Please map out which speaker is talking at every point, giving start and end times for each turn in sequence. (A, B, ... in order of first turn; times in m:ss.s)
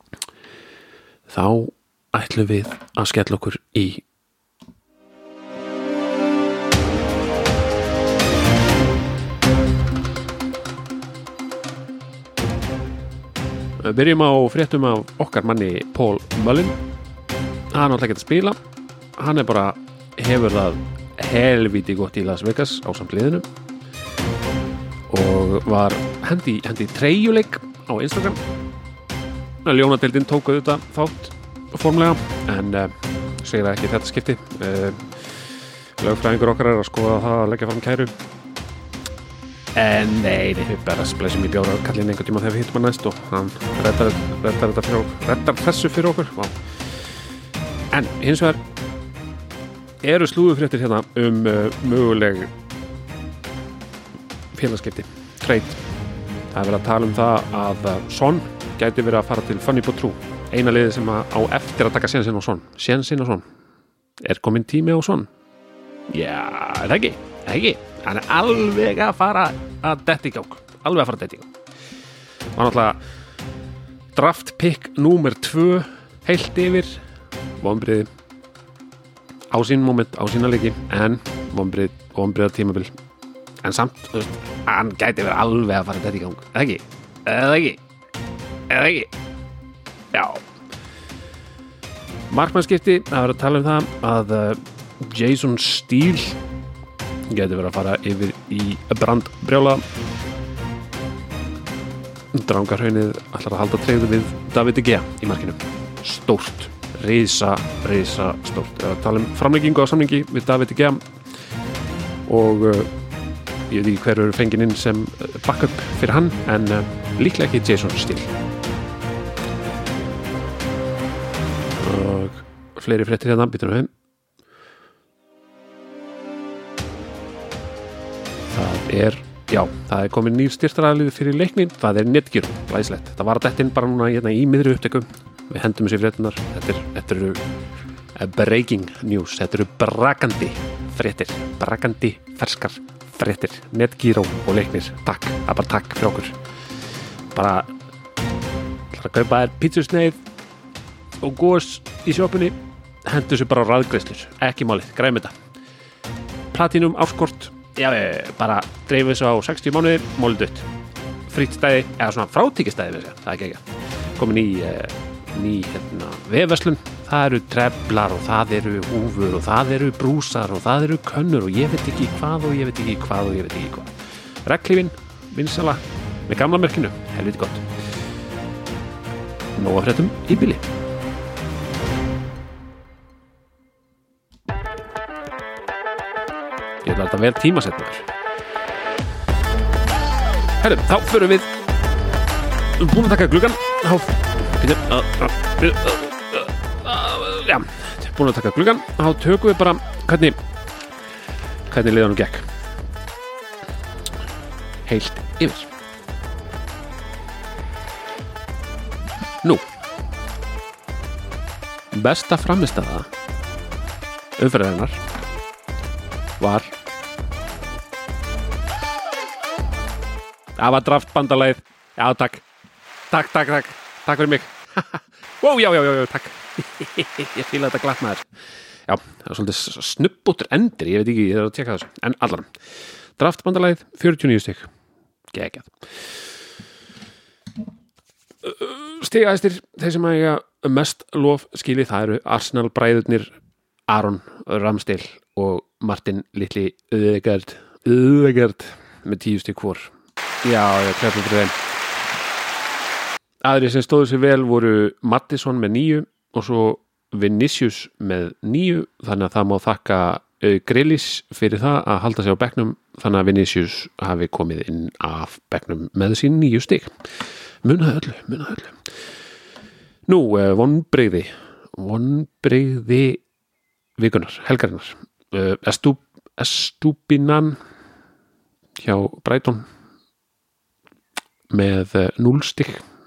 0:01.3-0:04.0 A
0:13.8-0:16.8 A
0:17.7-0:18.6 A
0:19.2-0:23.4 A
0:25.1-0:28.4 A
0:29.6-0:35.3 A
0:36.0-0:38.1 A
0:39.7-0:46.6 A
0:47.9-0:48.6 A
0:50.0-0:52.5 A
0:54.5-0:55.8 A
0:56.5-1:03.4 A
1:04.2-1:05.3 A
1:06.1-1:11.5 A
1:12.5-1:13.0 A
1:14.1-1:17.0 A
1:17.6-1:18.1 A
1:19.5-1:22.9 A
1:23.6-1:27.8 A
1:28.7-1:29.1 A
1:30.1-1:30.4 A
1:32.3-1:36.4 A
1:37.3-1:39.8 A
1:42.3-1:51.0 A
1:52.3-1:52.9 A
1:53.7-1:58.3 A
2:01.8-2:03.9 A
2:08.5-2:17.4 A
2:18.2-2:26.4 A
2:27.3-2:27.7 A
2:28.9-2:30.2 A
2:31.2-2:35.3 A
2:36.5-2:40.7 A
2:41.3-2:43.6 A
2:44.2-2:53.9 A
2:54.4-2:57.7 A
2:59.6-3:00.7 A
3:06.8-3:08.1 A
3:10.6-3:11.5 A
3:12.8-3:20.4 A
3:21.7-3:22.5 A
3:24.8-3:25.7 A
3:31.9-3:33.1 A
3:34.4-3:35.0 A
3:36.4-3:36.7 A
3:40.6-3:42.4 A
3:43.1-3:48.2 A
3:48.9-3:52.5 A
3:53.2-3:54.7 A
3:55.3-3:55.7 A
3:58.4-4:03.3 A
4:03.9-4:09.9 A
4:10.4-4:11.6 A
4:13.4-4:26.9 A
4:27.6-4:28.8 A
4:30.1-4:33.2 A
4:34.0-4:37.6 A
4:38.8-4:39.7 A
4:41.5-4:42.8 A